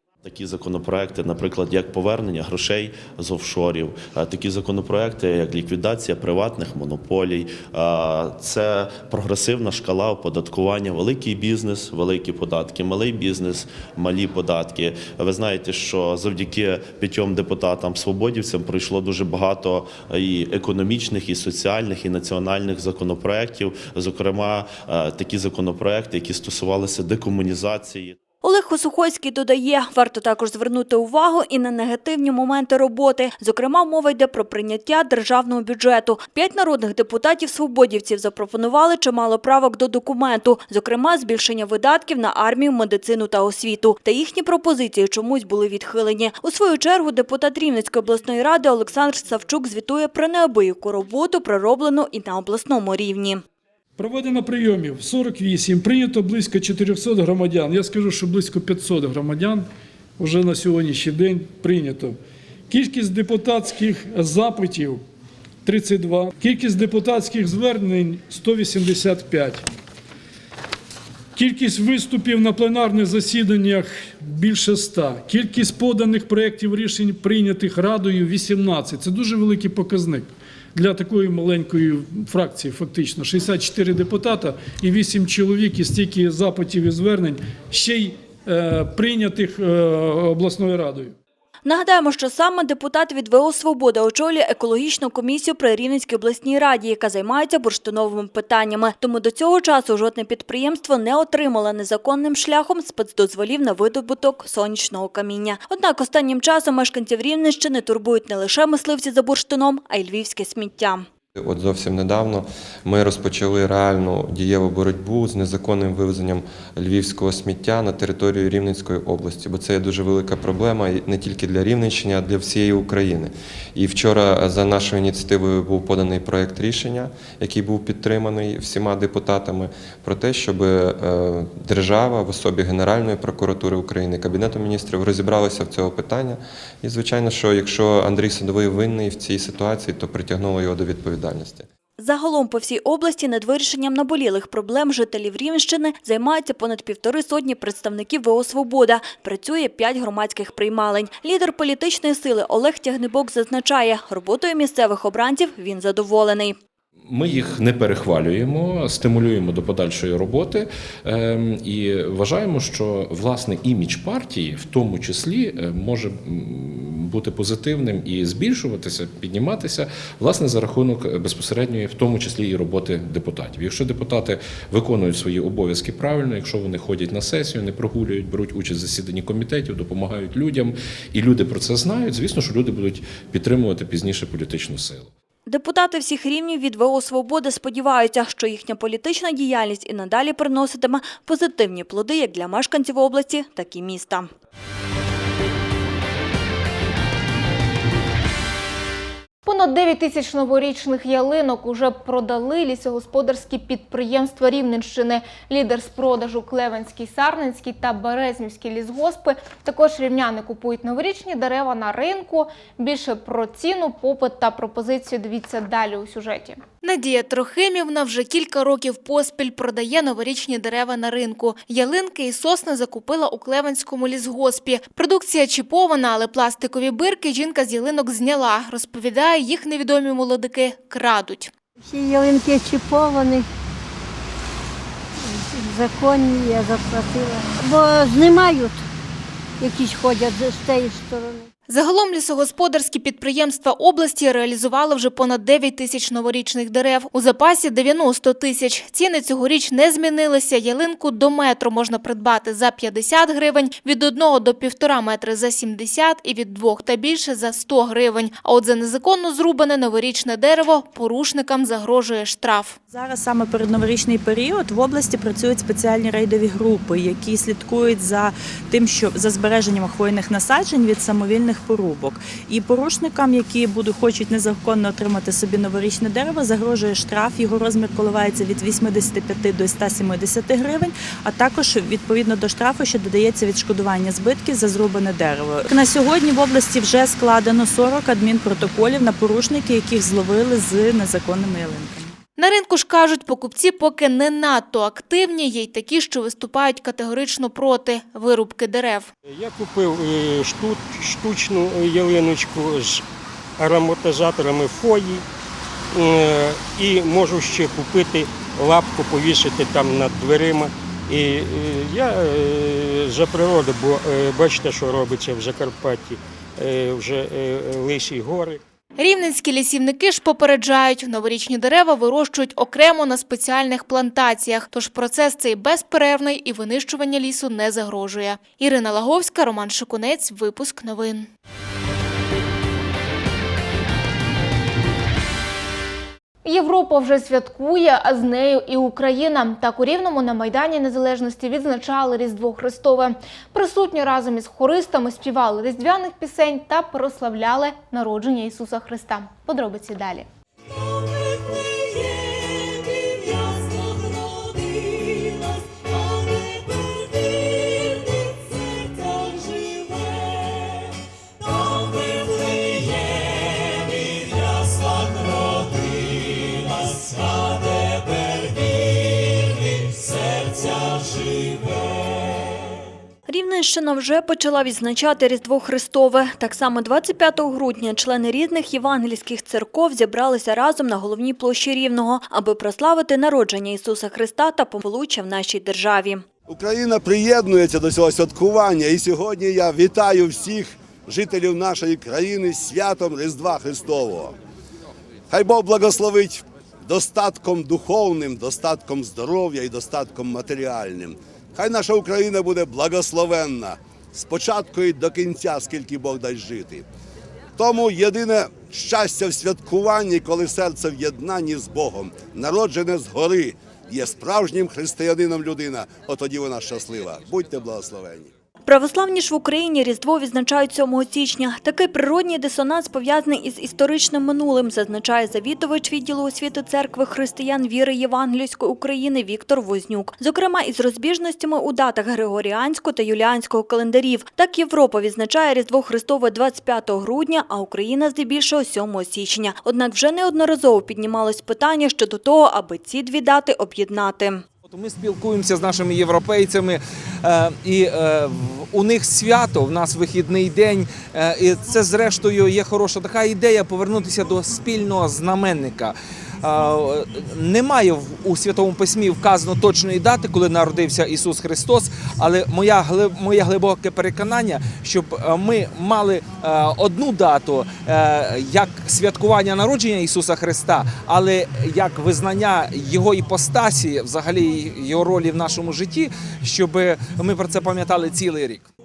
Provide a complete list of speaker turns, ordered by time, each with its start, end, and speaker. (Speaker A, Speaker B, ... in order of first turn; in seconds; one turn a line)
Speaker A: 0.2-28.1
Speaker B: 28.4-53.4
Speaker C: 54.0-59.6
Speaker C: 60.2-62.1
Speaker C: 62.7-65.0
Speaker C: 65.6-69.6
Speaker C: 71.3-91.2
Speaker B: 91.6-111.0
Speaker D: 111.3-141.7
Speaker B: 142.0-156.6
Speaker E: 157.1-185.1
Speaker B: 185.5-194.3
Speaker F: 199.4-231.5
Speaker G: 231.8-233.5
Speaker G: 235.3-238.8
Speaker G: 239.6-241.5
Speaker F: 241.7-262.8
Speaker H: 262.9-292.2
Speaker F: 292.4-299.1
Speaker I: 299.3-303.0
Speaker I: 303.6-305.2
Speaker I: 305.9-318.6
Speaker F: 319.0-331.3
Speaker F: 336.4-350.3
Speaker B: 373.3-386.2
Speaker J: 386.5-394.4
Speaker J: 395.3-406.8
Speaker J: 407.6-418.3
Speaker B: 418.6-444.4
Speaker K: 444.7-478.7